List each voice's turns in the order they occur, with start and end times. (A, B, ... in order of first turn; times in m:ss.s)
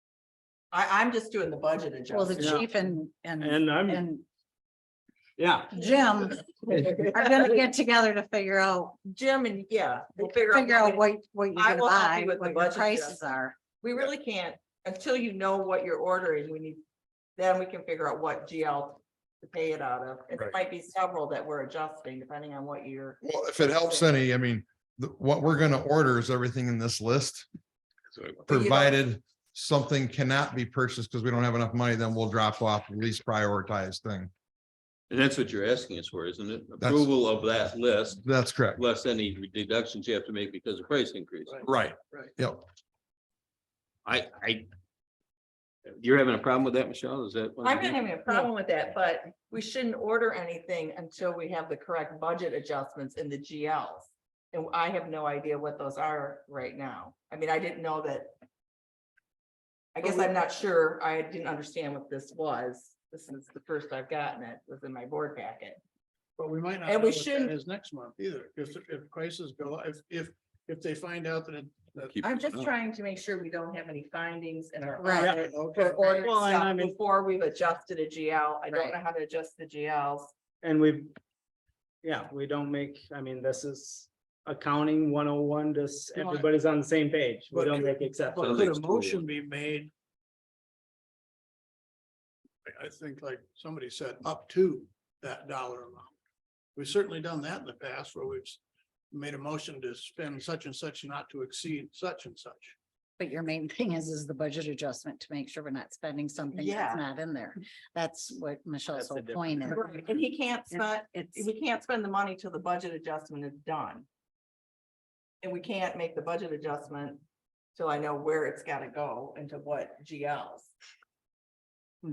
0:00.7-0:02.6 A
0:02.1-0:04.2 B
0:02.4-0:02.6 C
0:03.4-0:04.0 C
0:05.4-0:05.8 C
0:05.7-0:09.0 B
0:06.6-0:07.0 C
0:09.0-0:11.0 A
0:10.2-0:13.6 B
0:11.5-0:13.2 A
0:13.8-0:16.8 A
0:17.4-0:24.2 A
0:23.2-0:27.5 D
0:28.1-0:28.5 E
0:28.5-0:34.3 D
0:28.5-0:29.0 A
0:35.1-0:41.6 E
0:36.8-0:37.1 D
0:38.2-0:38.8 D
0:41.5-0:42.3 F
0:41.6-0:42.6 D
0:44.0-0:44.7 E
0:45.9-0:48.1 E
0:47.6-0:58.3 A
1:00.0-1:05.8 A
1:06.4-1:12.2 F
1:06.8-1:07.5 A
1:12.1-1:12.7 E
1:12.2-1:20.3 A
1:15.0-1:15.3 B
1:15.1-1:16.9 C
1:15.3-1:16.2 F
1:18.7-1:19.0 B
1:20.6-1:21.1 C
1:22.0-1:28.7 C
1:26.2-1:26.4 F
1:27.5-1:29.9 F
1:28.4-1:29.2 E
1:32.6-1:36.1 F
1:36.8-1:38.6 F
1:39.1-1:42.8 F
1:43.2-1:50.1 B
1:46.5-1:47.0 A
1:48.9-1:49.7 C
1:49.7-1:54.0 A
1:50.7-1:51.5 B
1:55.4-1:57.2 A
1:57.7-2:00.7 A